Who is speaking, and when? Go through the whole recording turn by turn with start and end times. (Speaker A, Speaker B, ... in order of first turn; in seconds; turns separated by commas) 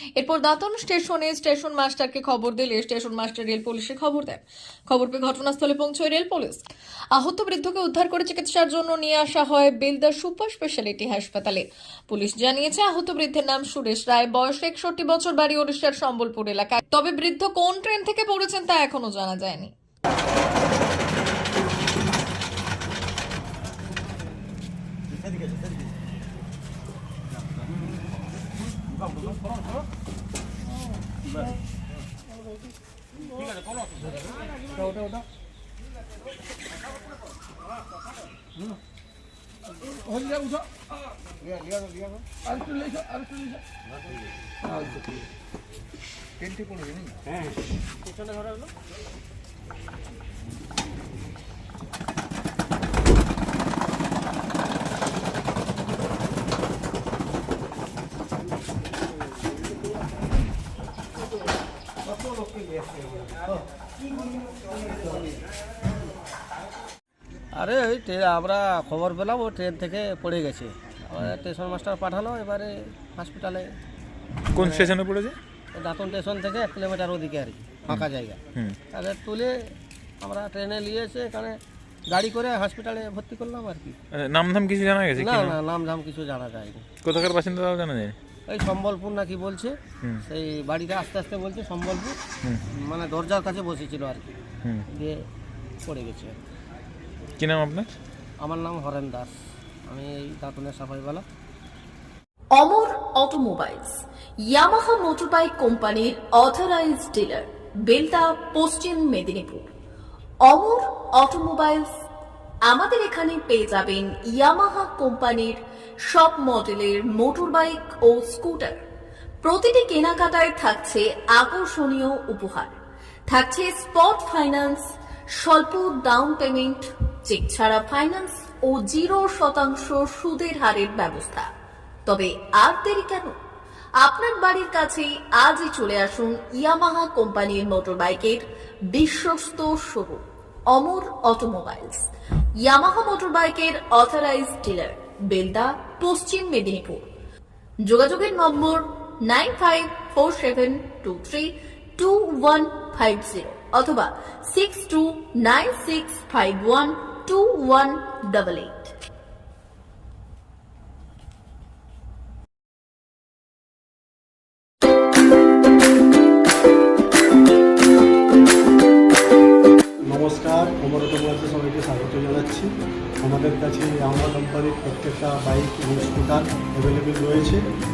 Speaker A: 0.2-6.6, Speaker A: 7.1-19.7, Speaker B: 40.2-40.5, Speaker B: 41.4-43.5, Speaker C: 46.4-47.1, Speaker B: 48.3-48.7, Speaker B: 67.5-73.7, Speaker C: 74.5-75.4, Speaker B: 74.6-75.0, Speaker B: 75.7-78.4, Speaker C: 77.9-78.8, Speaker B: 78.9-79.5, Speaker B: 80.2-84.0, Speaker C: 84.1-85.6, Speaker B: 85.2-86.9, Speaker C: 87.0-88.2, Speaker B: 88.5-92.2, Speaker B: 92.8-94.3, Speaker B: 94.9-95.2, Speaker B: 95.8-96.4, Speaker C: 97.4-97.9, Speaker B: 98.4-99.3, Speaker B: 99.9-101.2, Speaker D: 102.6-109.7, Speaker D: 110.5-111.9, Speaker D: 112.7-118.8, Speaker D: 119.4-122.8, Speaker D: 123.3-131.5, Speaker D: 132.1-133.4, Speaker D: 134.0-142.1, Speaker D: 142.6-147.1, Speaker D: 147.8-158.9, Speaker E: 170.1-177.7